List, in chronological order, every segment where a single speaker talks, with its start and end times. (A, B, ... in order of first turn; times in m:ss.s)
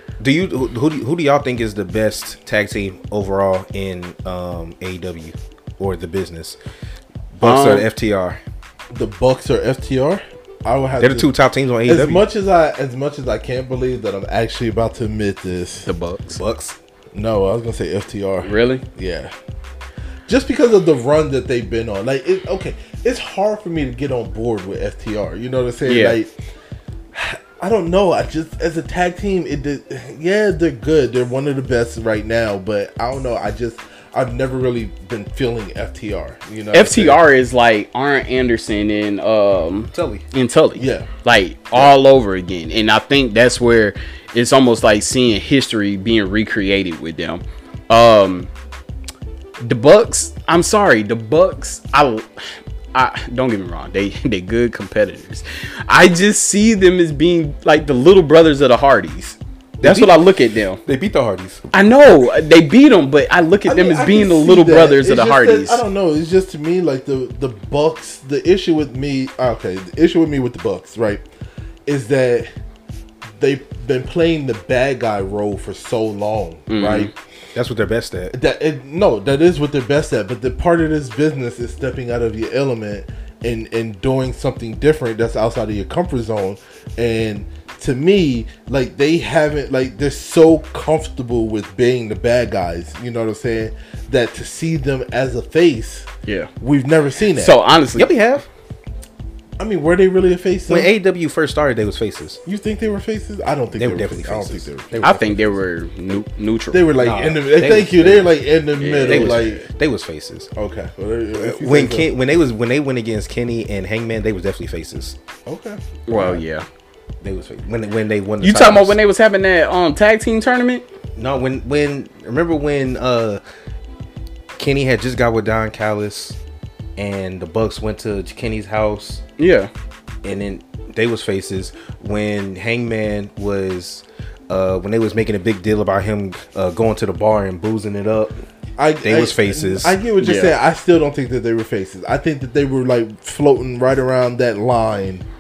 0:00.2-0:06.6 A
0:07.4-0:08.4 A
0:07.4-0:07.9 B
0:08.9-0:11.3 C
0:11.0-0:12.2 A
0:11.9-0:15.9 C
0:15.9-0:16.4 B
0:16.3-0:16.8 A
0:17.1-0:19.3 C
0:18.4-0:18.8 B
0:20.3-0:26.3 C
0:25.9-0:26.2 B
0:27.1-0:37.2 C
0:36.7-0:48.5 B
0:39.9-0:40.2 A
0:40.8-0:41.1 C
0:49.6-1:00.8 B
0:59.8-1:00.3 A
1:00.8-1:01.7 A
1:01.7-1:05.8 B
1:03.7-1:11.2 C
1:11.9-1:12.5 C
1:13.4-1:17.1 C
1:16.7-1:17.1 B
1:17.6-1:18.3 A
1:18.3-1:36.1 C
1:36.6-1:37.6 C
1:37.3-1:38.1 B
1:37.9-1:38.4 A
1:39.6-1:40.9 C
1:40.7-1:42.4 A
1:42.5-1:45.4 C
1:43.8-1:45.4 A
1:45.0-1:46.9 B
1:46.7-1:49.6 C
1:47.0-1:48.4 A
1:48.8-1:49.6 B
1:49.0-1:50.5 A
1:50.6-1:52.1 C
1:51.4-1:55.2 A
1:55.5-1:56.4 C
1:56.1-1:56.7 B
1:57.2-1:59.0 A
1:58.4-2:00.8 B
2:01.2-2:03.4 A
2:04.6-2:06.4 A
2:07.0-2:09.2 A
2:09.4-2:09.7 B
2:10.2-2:18.4 A
2:18.8-2:25.2 C
2:19.0-2:20.0 A
2:20.2-2:20.5 B